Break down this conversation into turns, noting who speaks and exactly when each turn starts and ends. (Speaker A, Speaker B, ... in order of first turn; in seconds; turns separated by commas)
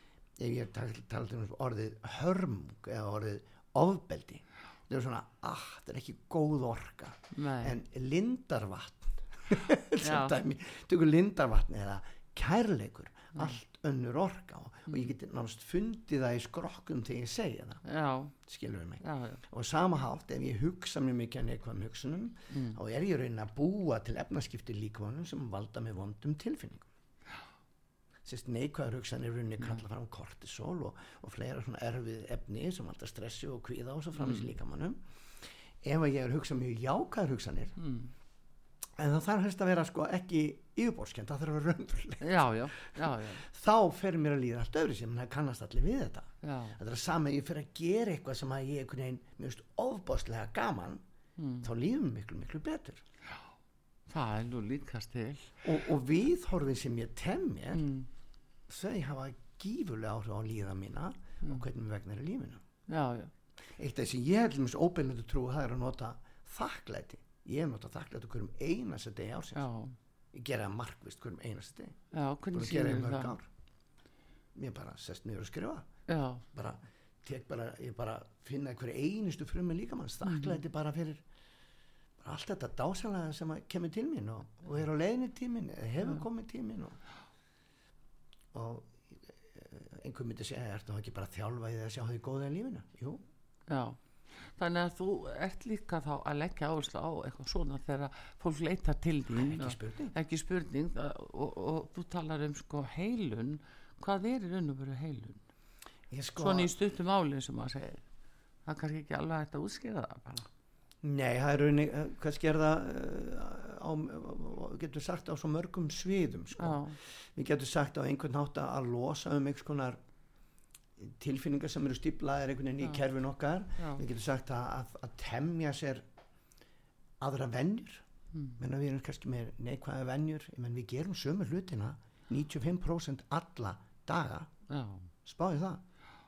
Speaker A: 0.4-17.8, Speaker B: 7.3-7.7, Speaker B: 10.0-10.3, Speaker B: 17.9-18.3, Speaker A: 18.4-26.9, Speaker B: 19.0-19.4, Speaker B: 22.5-22.8, Speaker A: 28.2-35.0, Speaker B: 34.1-34.5, Speaker A: 35.8-37.8, Speaker B: 37.8-38.1, Speaker A: 39.0-51.0, Speaker B: 42.2-43.4, Speaker B: 46.4-46.8, Speaker B: 51.4-51.7, Speaker A: 51.6-53.0, Speaker B: 54.1-55.5, Speaker A: 55.6-57.9, Speaker B: 57.7-58.1, Speaker A: 58.7-62.6, Speaker B: 62.9-63.3, Speaker A: 63.8-69.7, Speaker B: 69.5-69.9, Speaker A: 70.3-72.0, Speaker B: 72.1-73.3, Speaker A: 72.5-73.5, Speaker A: 74.5-75.9, Speaker B: 76.1-76.4, Speaker A: 76.5-81.2, Speaker B: 80.2-80.6, Speaker A: 82.2-87.0, Speaker A: 88.5-93.2, Speaker B: 93.7-94.0, Speaker B: 94.6-105.4, Speaker A: 99.3-100.1, Speaker A: 106.1-106.7, Speaker B: 106.4-108.0, Speaker B: 108.7-110.5, Speaker A: 111.0-120.0, Speaker B: 116.6-117.0, Speaker A: 121.0-126.0, Speaker A: 127.2-128.0, Speaker B: 128.3-128.6, Speaker A: 128.6-134.5, Speaker B: 134.7-135.1, Speaker A: 135.2-135.8